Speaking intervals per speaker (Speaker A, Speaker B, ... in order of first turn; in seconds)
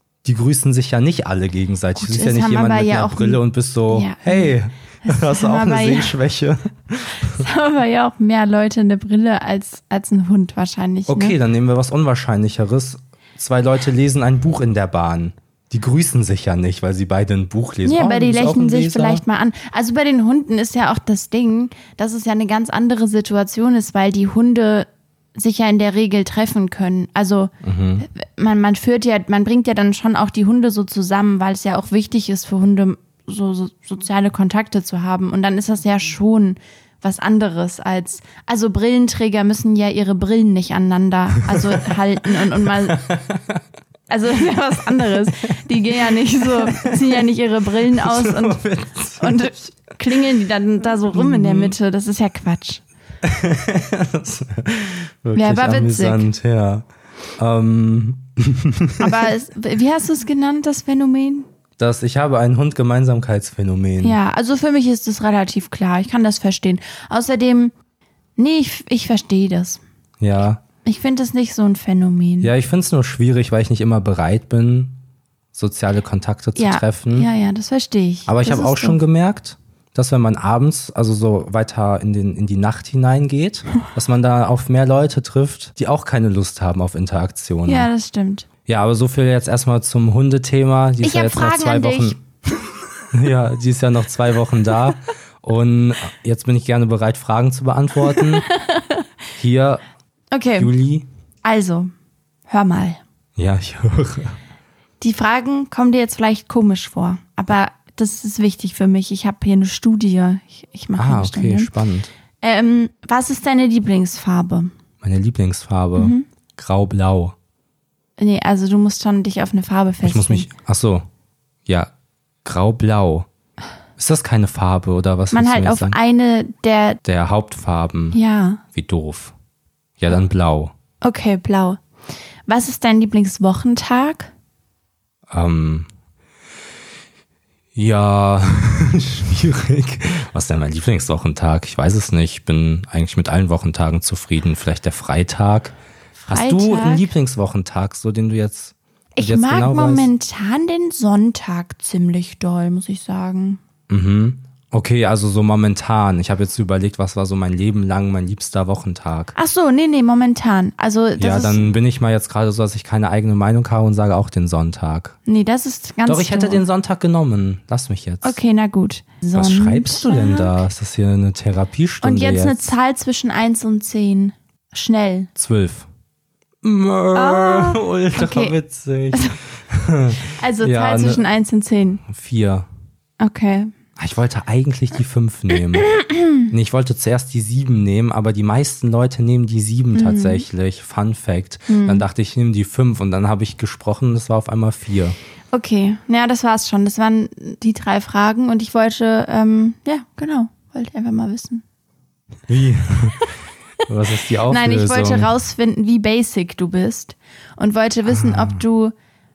Speaker A: 0.2-7.4, 11.1-19.2, 27.6-28.1, 41.5-43.6, 44.7-47.3, 47.9-49.7, 51.1-51.8, 53.2-56.8, 57.4-59.3, 61.8-64.2, 70.2-70.6, 72.4-75.0, 75.5-77.3, 78.3-87.9, 88.7-92.2, 93.1-98.5, 99.4-99.8, 100.6-101.1, 103.4-104.4, 111.0-112.1, 115.0-117.3, 120.0-121.0, 121.7-121.9, 122.4-123.3, 124.0-126.0, 127.0-128.2, 128.7-129.3, 130.0-130.7, 135.3-135.9, 137.7-145.8, 146.3-150.1, 153.9-159.3, 161.2-165.2, 166.1-168.4, 169.3-172.7, 175.3-175.9, 176.6-181.2, 182.0-182.7, 184.0-185.9, 186.5-195.2, 202.5-203.3, 203.8-205.3, 208.1-208.6
Speaker B: 1.9-6.1, 7.2-11.3, 17.8-43.0, 44.1-48.6, 49.2-52.8, 55.3-56.2, 59.0-61.5, 64.0-67.7, 68.4-69.8, 70.8-72.5, 76.5-79.0, 87.7-88.5, 91.0-92.2, 98.1-99.0, 100.3-100.7, 101.4-101.9, 102.5-103.0, 105.0-111.7, 112.4-114.7, 116.0-116.2, 118.2-120.5, 125.3-127.0, 128.1-128.6, 131.0-131.8, 132.5-134.3, 146.2-147.1, 149.1-153.6, 159.3-161.7, 165.2-166.6, 168.2-170.6, 172.0-175.3, 177.1-178.6, 180.3-182.0, 183.2-183.7, 185.8-186.4, 189.9-190.4, 191.7-192.0, 195.5-201.6, 204.5-208.9